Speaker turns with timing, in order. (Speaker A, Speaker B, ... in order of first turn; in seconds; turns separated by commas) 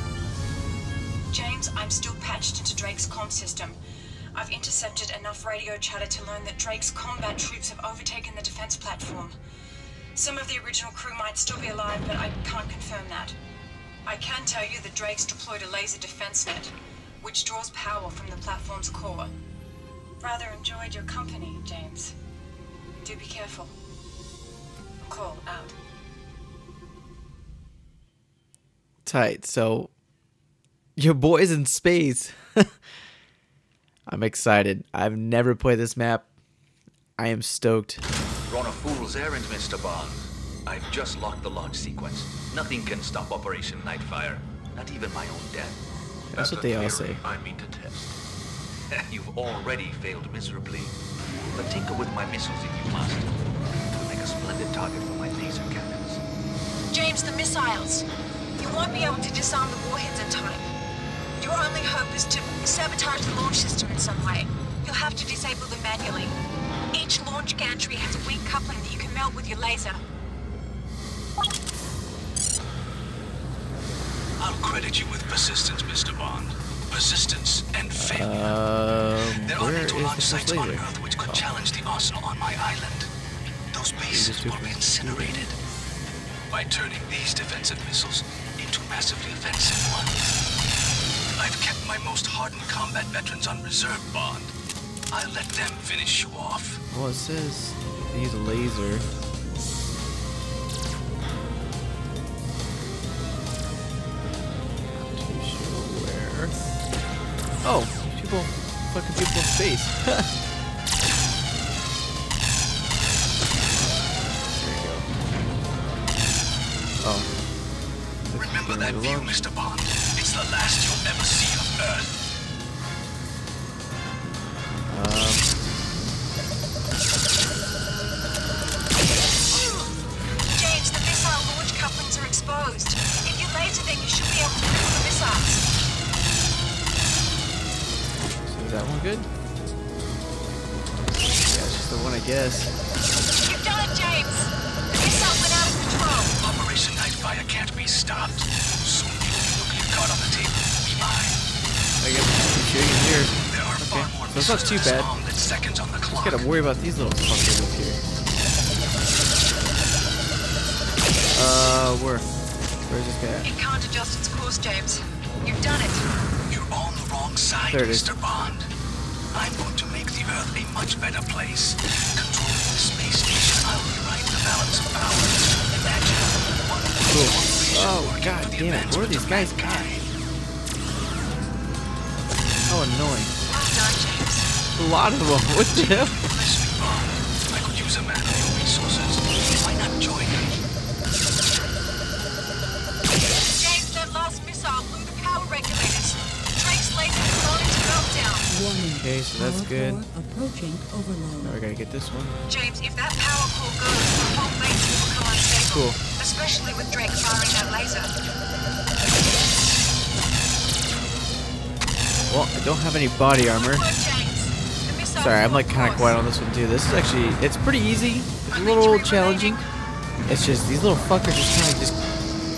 Speaker A: 1.3-3.8, Speaker A: 4.3-9.3, Speaker A: 10.1-13.3, Speaker A: 14.0-19.3, Speaker A: 20.2-22.1, Speaker A: 23.0-23.7, Speaker A: 25.0-25.7, Speaker B: 29.0-29.9, Speaker B: 31.0-32.7, Speaker B: 34.1-36.3, Speaker B: 37.2-38.0, Speaker C: 38.5-45.8, Speaker B: 46.3-47.2, Speaker C: 46.4-48.1, Speaker C: 49.1-51.0, Speaker C: 51.5-53.4, Speaker C: 53.9-56.2, Speaker A: 56.9-58.1, Speaker A: 58.6-60.7, Speaker A: 61.4-66.3, Speaker A: 66.9-70.0, Speaker D: 74.4-78.6, Speaker B: 78.0-81.4, Speaker D: 79.4-83.1, Speaker D: 83.7-85.6, Speaker B: 84.0-85.4, Speaker D: 86.5-90.4, Speaker D: 91.3-94.5, Speaker D: 95.1-96.8, Speaker B: 96.9-99.0, Speaker B: 104.9-106.5, Speaker B: 107.6-110.3, Speaker B: 113.7-115.1, Speaker B: 117.0-117.3, Speaker B: 118.3-119.4, Speaker D: 118.3-122.2, Speaker B: 124.9-125.6, Speaker A: 129.5-129.9, Speaker A: 130.5-135.6, Speaker B: 138.4-139.3, Speaker B: 141.5-142.7, Speaker A: 143.4-146.3, Speaker D: 146.4-151.4, Speaker B: 152.0-155.1, Speaker D: 153.4-156.4, Speaker B: 156.1-158.0, Speaker B: 161.3-162.3, Speaker B: 162.9-163.5, Speaker A: 163.4-166.1, Speaker D: 166.5-168.7, Speaker B: 167.6-168.1, Speaker D: 169.3-180.1, Speaker B: 177.1-179.9, Speaker B: 182.7-183.3, Speaker A: 183.5-184.5, Speaker B: 184.8-186.3, Speaker D: 185.5-190.6, Speaker A: 193.5-198.5, Speaker E: 198.4-201.6, Speaker B: 198.8-200.0, Speaker B: 201.4-202.4, Speaker A: 202.5-208.1, Speaker B: 205.7-206.0, Speaker B: 212.3-213.9, Speaker A: 213.6-216.2, Speaker B: 215.2-219.6, Speaker A: 218.5-219.6, Speaker B: 220.3-221.9